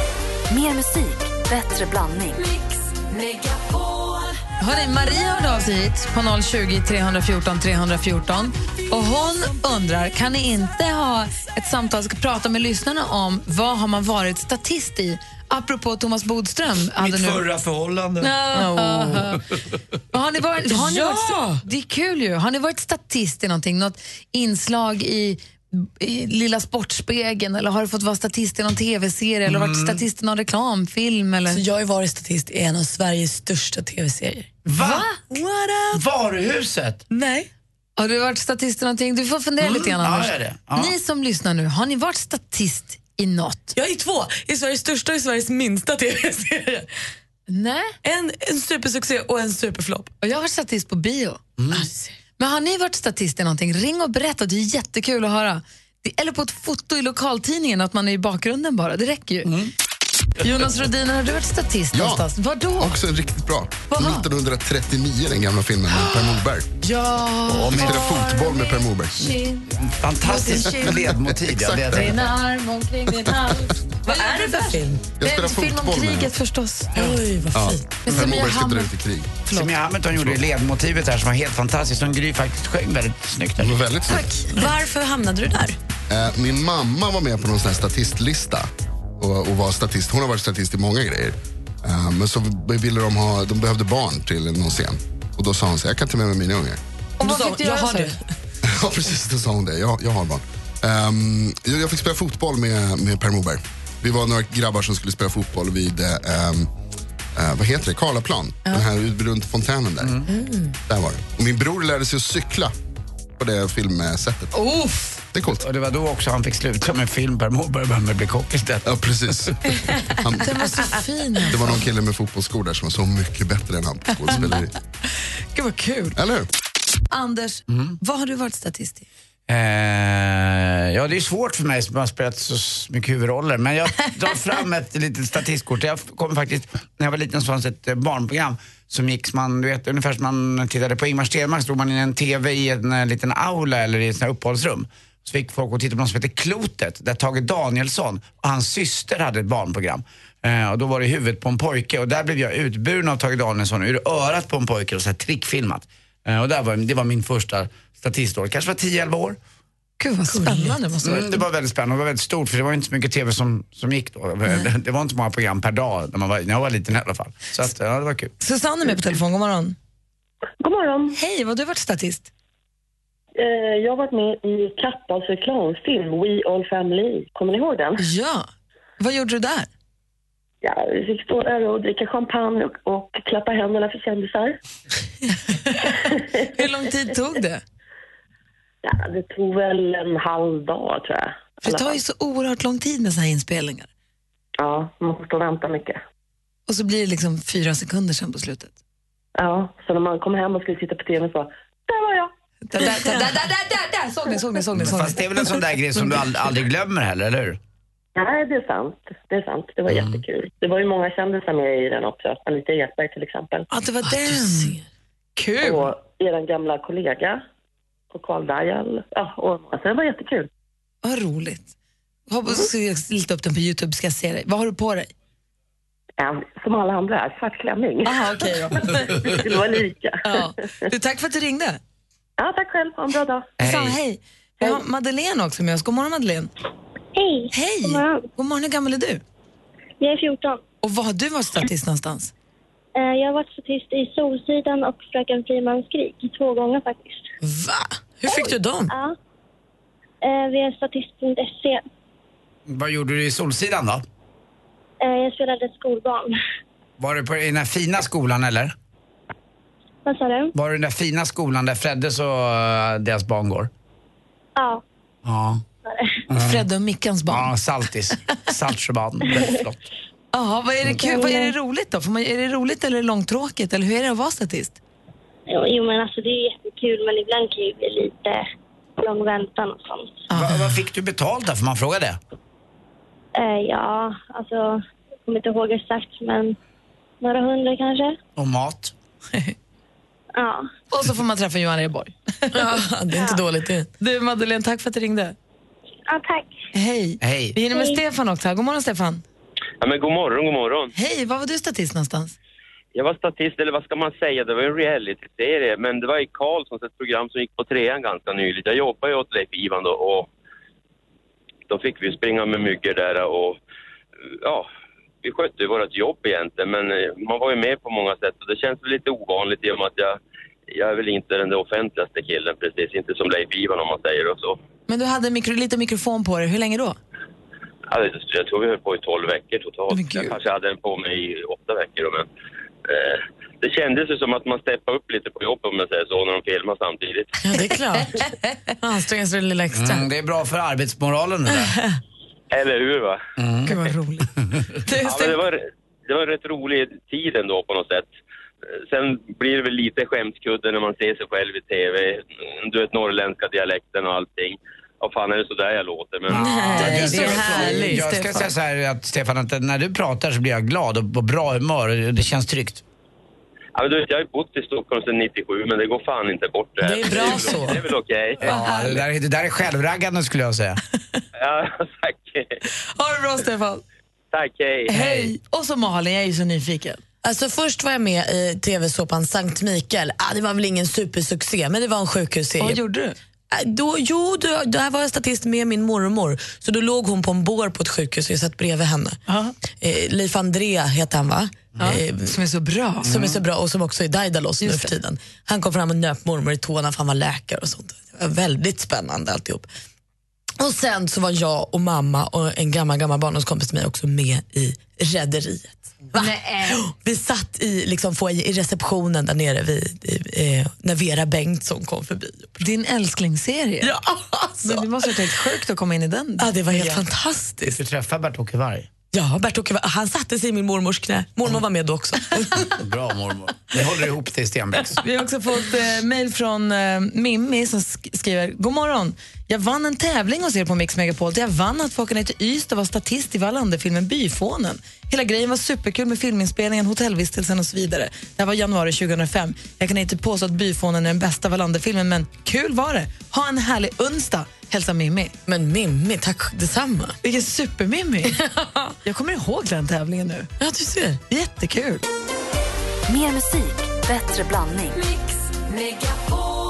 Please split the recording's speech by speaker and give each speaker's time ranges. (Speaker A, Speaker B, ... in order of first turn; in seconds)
Speaker A: 0.5-2.4, 453.1-455.0
Speaker B: 3.1-4.3, 18.4-19.3, 20.7-21.6, 31.5-34.5, 35.2-36.0, 37.1-37.5, 43.8-46.9, 48.0-50.1, 51.7-52.1, 74.1-75.1, 77.0-78.0, 84.1-85.8, 97.2-98.2, 110.3-110.7, 160.3-160.8, 202.8-203.2, 214.0-214.8, 228.4-228.8, 247.4-248.9, 292.5-293.9, 337.4-338.3, 338.8-340.1, 341.5-342.0, 356.3-358.5, 366.8-367.8, 377.2-382.8, 383.5-389.2, 389.8-392.4, 393.1-399.7, 400.6-412.6, 413.8-414.9, 416.4-417.8, 419.1-422.7, 445.5-447.2, 448.3-448.9, 450.6-451.2
Speaker C: 4.6-17.4, 18.2-19.4, 20.1-31.6, 34.8-35.2, 38.0-43.7, 47.5-47.9, 50.2-51.4, 52.4-59.5, 60.4-63.0, 63.9-64.3, 65.9-69.7, 70.2-71.1, 72.0-73.5, 74.1-77.2, 78.0-78.9, 97.2-98.2, 114.5-115.2, 120.4-121.8, 125.5-126.2, 127.1-129.1, 160.0-161.4, 168.4-169.8, 171.1-172.3, 178.0-178.5, 179.0-179.7, 185.5-187.6, 191.6-193.9, 196.7-198.7, 202.7-205.5, 213.7-214.8, 215.4-215.9, 221.0-221.7, 222.3-225.1, 228.1-228.9, 230.2-231.8, 233.6-236.5, 237.5-239.2, 240.8-242.3, 266.4-267.5, 270.3-274.8, 280.3-280.8, 290.9-292.8, 294.0-295.4, 296.7-299.2, 300.9-302.4, 324.9-327.0, 329.9-330.4, 337.9-338.3, 343.7-344.3, 344.9-345.4, 367.1-367.8, 368.4-369.0, 373.0-373.8, 374.9-377.0, 382.6-383.2, 389.3-389.5, 391.8-393.1, 394.6-394.9, 406.1-406.8, 412.6-413.9, 414.6-417.0, 425.0-445.3, 447.2-448.4, 449.1-450.5, 451.3-452.0
Speaker D: 17.0-18.4, 29.5-30.0, 34.7-35.1, 35.9-37.0, 39.6-41.0, 51.6-51.9, 59.5-59.7, 69.8-72.3, 79.5-83.9, 110.0-110.3, 115.6-118.9, 127.7-128.0, 129.5-159.4, 161.0-168.3, 204.7-207.6, 209.9-210.2, 233.6-234.0, 252.7-254.0, 257.0-258.7, 260.6-263.7, 265.2-265.6, 266.3-266.7, 267.3-269.8, 280.3-282.2, 288.4-288.9, 297.2-297.6, 339.7-341.7, 343.4-343.9, 344.5-344.8, 356.3-362.8, 368.4-370.8, 374.9-375.3, 393.1-393.4, 417.6-418.9, 422.8-425.0
Speaker E: 61.9-62.2, 62.8-66.7, 67.5-69.3, 70.8-72.1, 73.1-73.5, 75.2-76.3, 77.5-79.4, 83.6-84.3, 86.1-96.8, 98.7-106.7, 107.3-110.2, 110.9-112.7, 113.4-114.5, 115.3-115.6, 118.9-120.5, 121.5-124.7, 126.2-126.5
Speaker F: 170.6-171.1, 173.4-178.0, 180.6-184.6, 188.8-192.0, 194.6-196.0, 199.4-202.3, 208.2-213.7, 215.6-217.4, 218.1-220.5, 226.2-228.2, 229.1-230.5, 232.4-233.5
Speaker G: 237.2-238.2, 240.0-240.6, 243.0-247.3, 248.3-249.2, 250.2-251.8, 255.0-256.4, 260.1-260.5, 264.6-264.8, 265.9-266.2, 271.2-271.5, 275.5-278.5, 279.0-280.2, 283.4-286.6, 287.2-288.2, 290.4-290.7, 293.1-293.4, 296.1-296.5, 297.7-298.0
Speaker H: 299.8-300.9, 302.9-310.3, 311.7-313.6, 314.3-314.7, 315.2-320.2, 320.7-324.6, 327.9-332.3, 332.9-337.4, 342.5-343.2, 345.1-348.1, 348.8-357.3, 363.8-368.4, 371.4-372.6, 374.3-374.9